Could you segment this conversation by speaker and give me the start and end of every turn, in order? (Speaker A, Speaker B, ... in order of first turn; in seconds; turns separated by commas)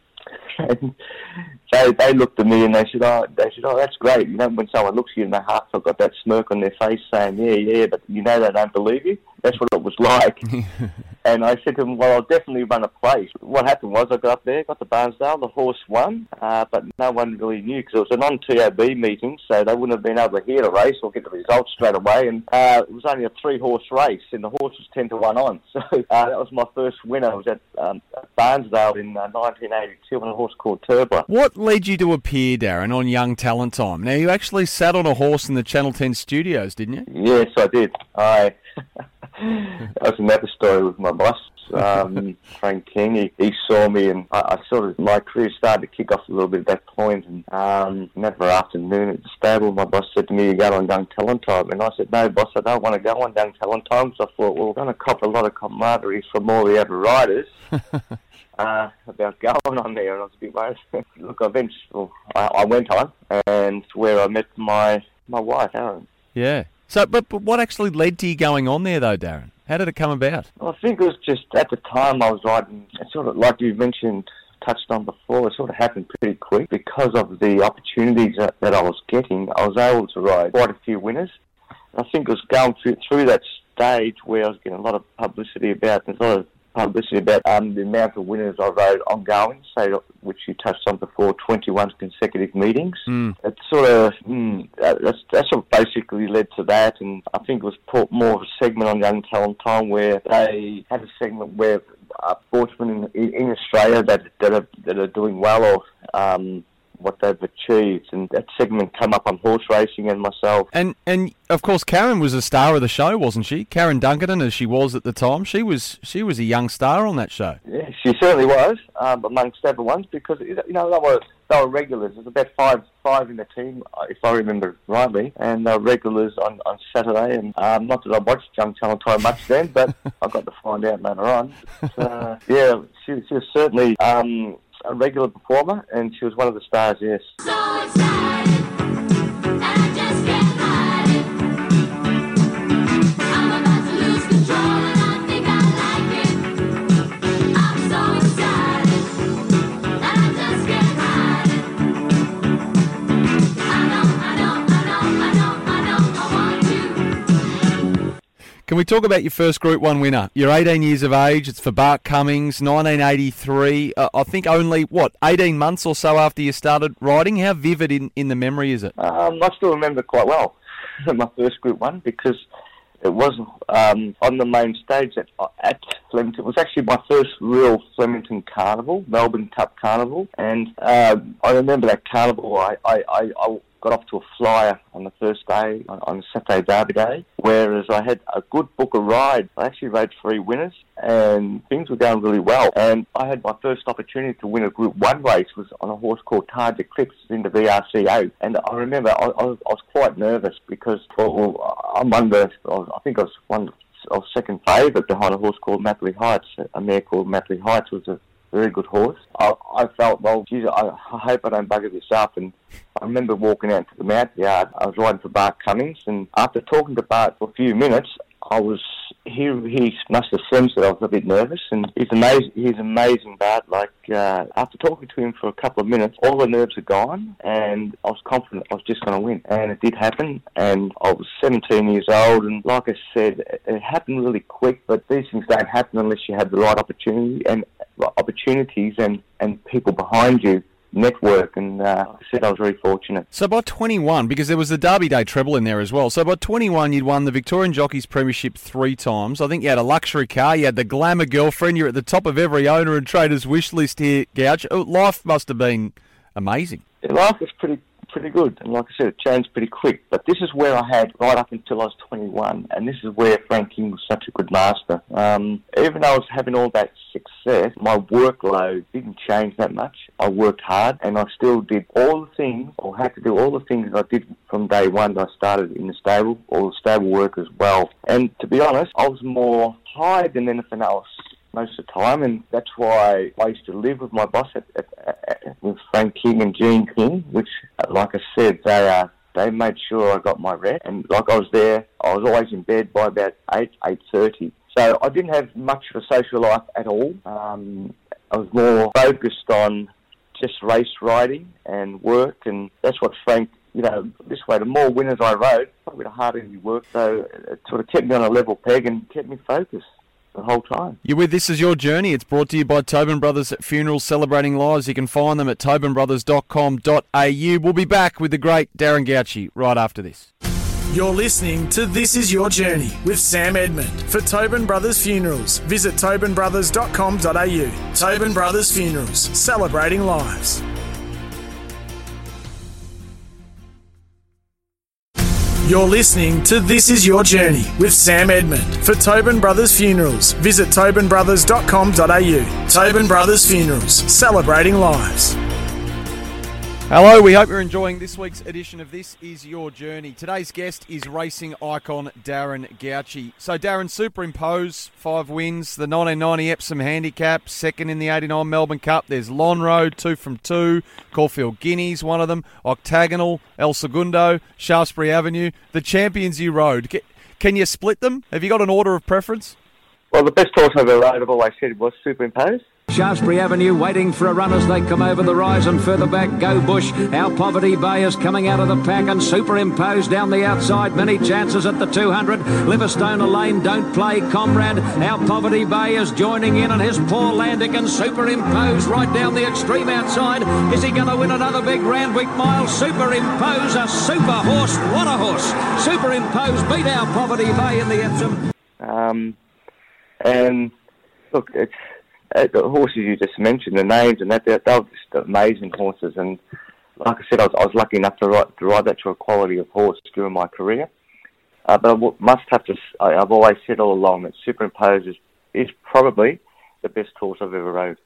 Speaker A: 0.5-1.0, Speaker A: 1.7-10.5, Speaker A: 11.2-31.2, Speaker B: 31.3-37.1, Speaker A: 37.1-38.6, Speaker A: 39.4-57.5, Speaker A: 58.6-66.1, Speaker B: 66.3-70.5, Speaker A: 70.6-81.3, Speaker A: 81.9-110.7, Speaker B: 93.1-93.3, Speaker B: 110.7-117.6, Speaker A: 117.7-137.3, Speaker C: 137.4-138.6, Speaker C: 139.6-141.3, Speaker C: 143.3-146.5, Speaker C: 147.5-149.1, Speaker C: 150.0-151.6, Speaker C: 153.7-157.1, Speaker B: 158.7-168.9, Speaker A: 169.0-172.4, Speaker A: 173.0-243.2, Speaker B: 243.3-256.8, Speaker A: 257.0-311.0, Speaker B: 311.0-320.3, Speaker D: 320.9-330.6, Speaker D: 335.6-345.4, Speaker B: 346.9-369.6, Speaker A: 370.1-372.6, Speaker E: 372.9-398.4, Speaker A: 398.8-399.4, Speaker A: 400.2-400.7, Speaker A: 401.3-401.8, Speaker A: 402.3-406.4, Speaker A: 407.0-410.9, Speaker A: 411.7-418.0